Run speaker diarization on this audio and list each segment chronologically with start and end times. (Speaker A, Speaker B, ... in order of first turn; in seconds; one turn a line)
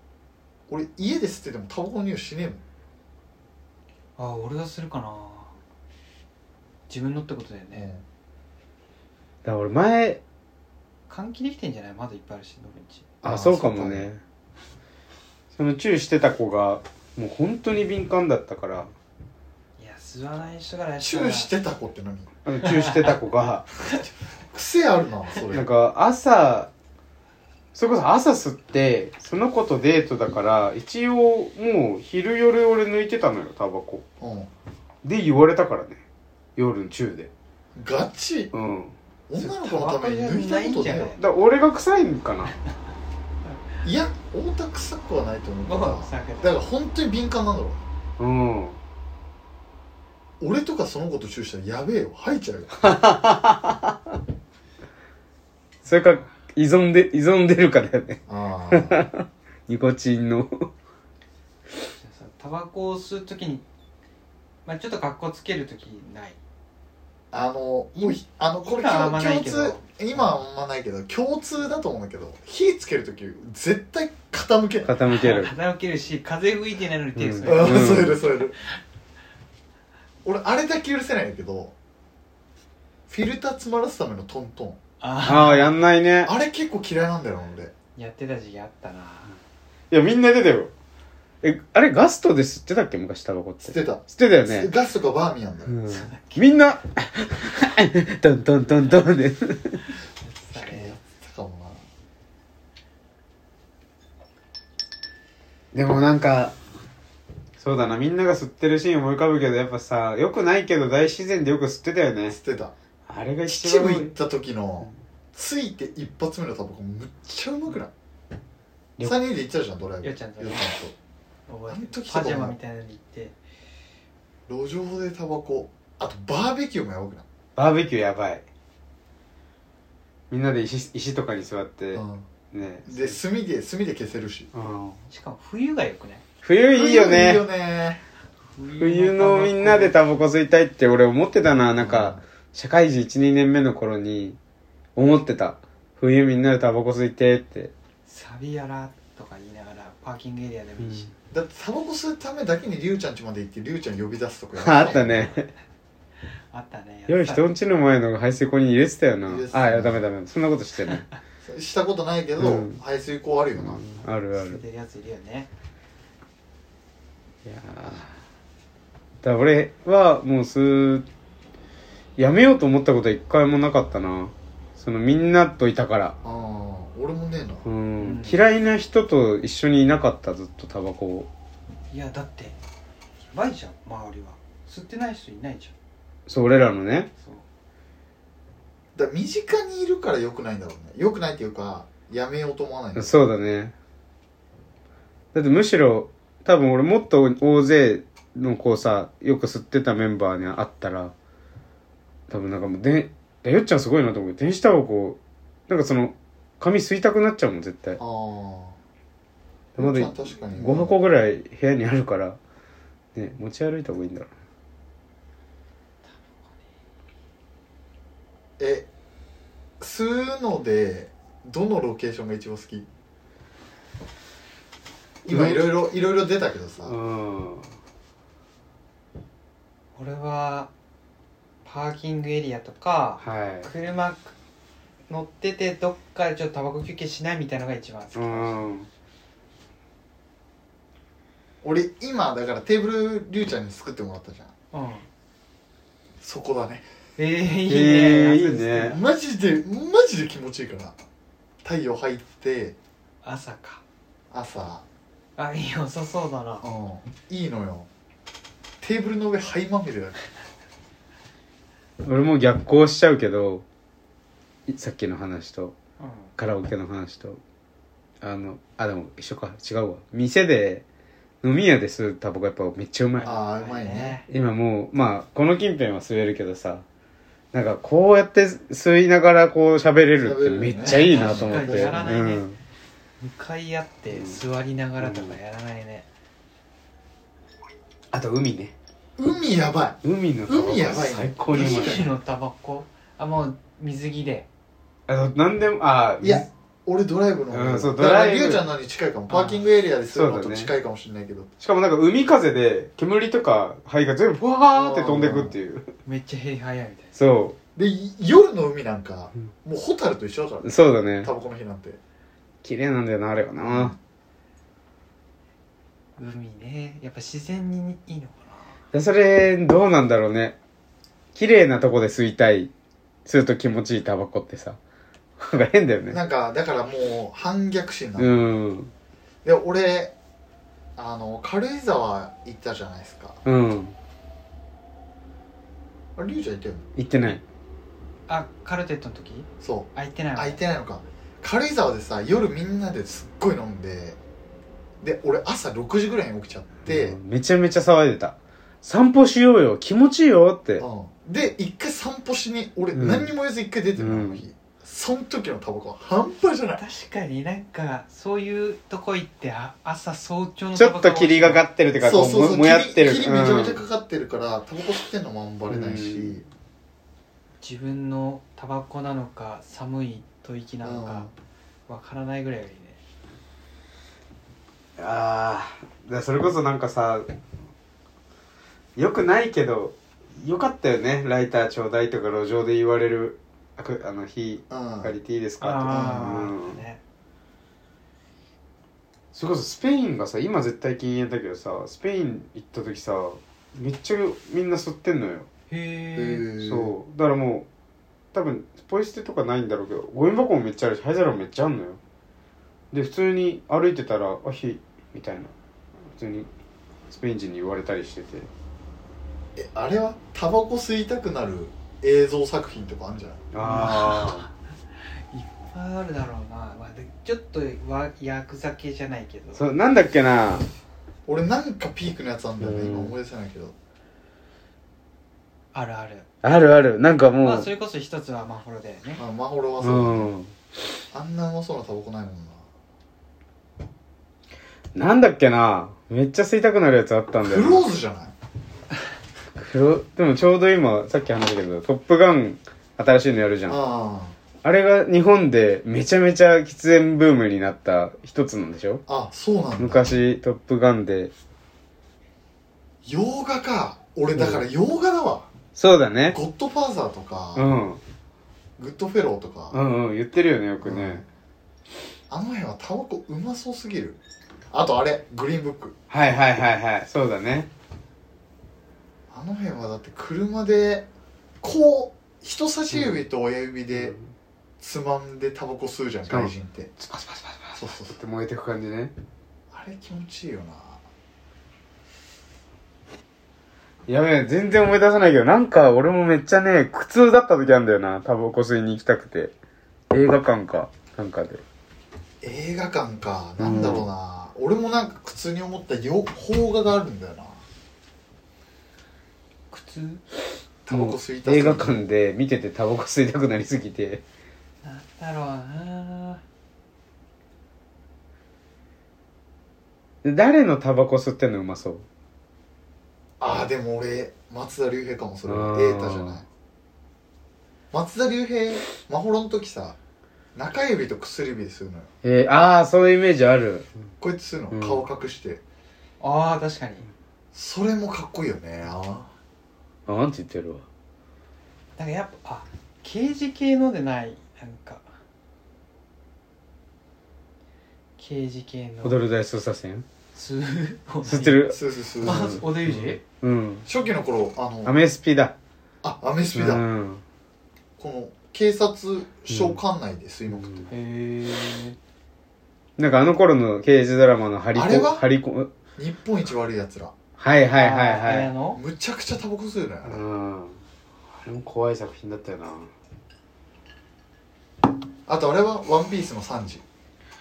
Speaker A: 0.7-2.6
Speaker B: 4.2-5.5
Speaker B: 6.9-7.9
Speaker A: 7.7-8.0
Speaker C: 9.4-10.2
Speaker B: 11.1-13.1
Speaker C: 13.2-14.2
Speaker A: 13.2-14.1
Speaker C: 15.5-18.9
Speaker B: 19.8-21.5
Speaker A: 21.0-22.3
Speaker C: 22.4-23.7
Speaker B: 22.6-23.2
Speaker A: 24.5-25.7
Speaker C: 25.5-26.7
Speaker C: 27.8-34.0
Speaker A: 34.2-34.5
Speaker C: 35.0-36.0
Speaker C: 36.6-37.3
Speaker A: 37.8-38.5
Speaker C: 38.5-38.9
Speaker A: 39.3-41.2
Speaker B: 39.4-41.2
Speaker C: 41.2-42.5
Speaker A: 43.8-47.9
Speaker B: 45.7-46.6
Speaker C: 48.2-48.8
Speaker A: 50.4-52.8
Speaker C: 52.8-54.2
Speaker C: 55.9-58.2
Speaker A: 58.3-59.0
Speaker C: 58.7-60.7
Speaker B: 62.0-63.6
Speaker B: 64.7-66.4
Speaker A: 67.3-74.9
Speaker B: 68.7-70.2
Speaker C: 74.9-75.5
Speaker B: 75.1-78.2
Speaker C: 77.2-78.2
Speaker A: 77.5-78.5
Speaker A: 80.2-81.7
Speaker A: 83.1-84.8
Speaker B: 85.0-85.8
Speaker C: 85.2-86.3
Speaker A: 86.2-87.7
Speaker B: 88.0-89.4
Speaker C: 89.9-90.7
Speaker C: 91.4-94.7
Speaker A: 93.6-95.8
Speaker C: 95.7-99.8
Speaker B: 95.9-96.6
Speaker B: 100.2-101.0
Speaker A: 100.5-101.8
Speaker C: 105.7-106.5
Speaker C: 107.6-112.4
Speaker A: 112.3-112.7
Speaker C: 113.1-114.1
Speaker A: 113.5-117.9
Speaker A: 119.0-120.9
Speaker B: 120.0-120.8
Speaker B: 121.5-123.4
Speaker A: 121.7-122.6
Speaker A: 124.5-127.2
Speaker C: 127.6-128.4
Speaker C: 130.3-133.2
Speaker A: 131.9-132.3
Speaker A: 132.9-134.5
Speaker C: 134.5-135.0
Speaker B: 135.1-136.2
Speaker C: 136.4-137.4
Speaker A: 136.7-138.0
Speaker B: 138.6-140.0
Speaker C: 138.8-144.4
Speaker A: 141.8-142.2
Speaker C: 145.0-147.7
Speaker B: 148.1-151.1
Speaker C: 150.8-151.1
Speaker A: 151.3-155.3
Speaker C: 154.6-155.5
Speaker B: 156.5-157.5
Speaker C: 157.1-161.1
Speaker A: 159.3-160.0
Speaker A: 161.4-163.8
Speaker C: 162.4-162.8
Speaker C: 163.6-164.6
Speaker B: 164.3-165.5
Speaker C: 167.4-168.2
Speaker C: 169.2-171.1
Speaker C: 172.2-176.2
Speaker A: 176.2-177.7
Speaker C: 177.7-181.3
Speaker B: 178.0-178.4
Speaker B: 181.9-182.6
Speaker B: 183.3-185.7
Speaker C: 186.3-187.1
Speaker B: 187.2-187.4
Speaker A: 189.0-193.2
Speaker C: 193.0-193.8
Speaker C: 195.3-201.1
Speaker C: 202.3-208.0
Speaker A: 208.0-208.8
Speaker A: 209.8-210.9
Speaker C: 209.8-212.4
Speaker C: 213.2-214.3
Speaker B: 216.1-216.4
Speaker A: 218.6-218.9
Speaker A: 219.8-222.9
Speaker C: 225.3-225.7
Speaker A: 225.3-226.9
Speaker C: 226.8-227.7
Speaker B: 230.0-230.7
Speaker B: 231.6-234.3
Speaker C: 233.2-233.7
Speaker B: 235.1-238.6
Speaker C: 238.2-238.9
Speaker A: 241.6-244.5
Speaker B: 244.7-245.1
Speaker A: 246.2-246.8
Speaker B: 247.2-249.0
Speaker C: 247.7-249.0
Speaker A: 248.8-251.0
Speaker A: 251.6-252.8
Speaker B: 253.2-253.8
Speaker A: 254.3-254.8
Speaker B: 255.4-256.6
Speaker A: 256.6-257.9
Speaker A: 258.8-260.2
Speaker C: 262.0-263.6
Speaker C: 264.7-265.8
Speaker B: 266.0-266.3
Speaker C: 266.4-267.4
Speaker C: 268.2-270.8
Speaker C: 271.4-273.3
Speaker B: 273.2-274.3
Speaker A: 273.2-274.2
Speaker C: 274.3-276.8
Speaker C: 277.5-282.6
Speaker A: 280.2-282.2
Speaker B: 280.8-282.4
Speaker B: 283.2-286.1
Speaker C: 284.1-284.4
Speaker C: 285.0-285.4
Speaker C: 288.1-288.7
Speaker A: 289.2-292.1
Speaker C: 290.0-292.0
Speaker B: 291.5-294.5
Speaker C: 295.1-296.5
Speaker A: 296.2-301.5
Speaker C: 297.5-298.6
Speaker B: 299.3-299.6
Speaker C: 300.1-300.7
Speaker C: 301.6-305.9
Speaker A: 304.7-305.6
Speaker B: 306.1-307.2
Speaker C: 307.2-307.6
Speaker A: 307.8-310.7
Speaker C: 310.6-311.3
Speaker A: 311.2-312.0
Speaker C: 312.6-313.9
Speaker A: 313.6-314.0
Speaker B: 316.2-318.8
Speaker C: 318.9-320.6
Speaker C: 321.4-322.7
Speaker C: 323.3-324.8
Speaker C: 325.4-326.2
Speaker A: 326.1-328.5
Speaker C: 328.2-328.9
Speaker A: 329.4-330.1
Speaker A: 331.0-333.4
Speaker C: 333.4-333.9
Speaker A: 336.2-336.9
Speaker C: 337.0-337.4
Speaker B: 338.3-340.6
Speaker A: 339.6-344.2
Speaker A: 345.0-347.2
Speaker C: 346.9-350.8
Speaker A: 350.8-356.8
Speaker C: 352.9-353.3
Speaker C: 354.0-354.4
Speaker B: 356.8-361.6
Speaker C: 360.8-363.8
Speaker A: 362.0-366.4
Speaker C: 365.7-366.4
Speaker B: 367.6-371.3
Speaker A: 370.8-371.3
Speaker B: 371.9-373.0
Speaker C: 375.0-377.3
Speaker C: 379.0-386.8
Speaker A: 384.7-385.1
Speaker B: 385.6-387.0
Speaker A: 385.9-386.4
Speaker C: 389.3-395.5
Speaker B: 395.7-396.5
Speaker A: 396.1-396.9
Speaker C: 396.6-397.7
Speaker C: 398.3-402.0
Speaker C: 402.9-405.5
Speaker C: 406.1-406.5
Speaker C: 407.1-408.5
Speaker A: 409.6-413.5
Speaker C: 413.5-414.5
Speaker B: 413.6-414.5
Speaker B: 415.1-419.6
Speaker C: 419.6-420.7
Speaker A: 421.3-423.8
Speaker C: 422.6-423.1
Speaker B: 425.7-426.3
Speaker C: 426.4-427.7
Speaker B: 427.4-429.2
Speaker A: 429.2-430.3
Speaker C: 429.8-430.5
Speaker A: 431.1-432.6
Speaker C: 434.9-437.9
Speaker A: 437.4-438.4
Speaker C: 439.6-443.8
Speaker A: 443.7-444.4
Speaker C: 444.6-449.0
Speaker A: 449.1-450.2
Speaker C: 449.8-451.3
Speaker A: 453.1-455.5
Speaker C: 454.3-454.6
Speaker C: 455.8-456.4
Speaker A: 456.3-457.7
Speaker C: 457.6-458.0
Speaker A: 458.8-459.8
Speaker C: 459.7-461.2
Speaker A: 460.8-461.3
Speaker A: 462.3-464.2
Speaker A: 464.7-465.9
Speaker C: 466.1-467.7
Speaker A: 469.3-471.1
Speaker A: 471.6-474.2
Speaker C: 473.9-474.2
Speaker A: 474.8-476.9
Speaker C: 476.3-479.1
Speaker A: 477.8-478.1
Speaker A: 479.7-481.0
Speaker C: 484.1-489.5
Speaker C: 490.1-491.6
Speaker A: 492.4-497.6
Speaker C: 493.6-494.1
Speaker B: 499.7-500.2
Speaker A: 500.9-502.1
Speaker C: 500.9-504.2
Speaker B: 504.8-506.4
Speaker C: 510.2-512.0
Speaker A: 513.4-516.5
Speaker C: 515.5-516.4
Speaker A: 517.9-520.0
Speaker A: 520.5-522.1
Speaker C: 522.2-523.9
Speaker A: 524.2-525.6
Speaker C: 524.7-525.0
Speaker B: 526.2-527.1
Speaker A: 527.5-529.3
Speaker C: 530.1-530.8
Speaker B: 532.0-535.1
Speaker B: 538.2-539.2
Speaker C: 539.0-540.1
Speaker B: 540.4-543.2
Speaker C: 541.2-543.9
Speaker A: 541.7-542.6
Speaker A: 543.9-545.0
Speaker C: 544.9-545.6
Speaker A: 546.0-546.9
Speaker C: 546.4-547.2
Speaker A: 548.0-550.9
Speaker C: 549.5-549.8
Speaker C: 550.5-550.9
Speaker B: 550.9-552.0
Speaker C: 553.0-555.7
Speaker A: 554.8-555.2
Speaker A: 556.0-557.1
Speaker C: 557.4-558.5
Speaker B: 557.7-558.8
Speaker A: 558.8-560.2
Speaker C: 560.0-562.9
Speaker A: 565.3-566.8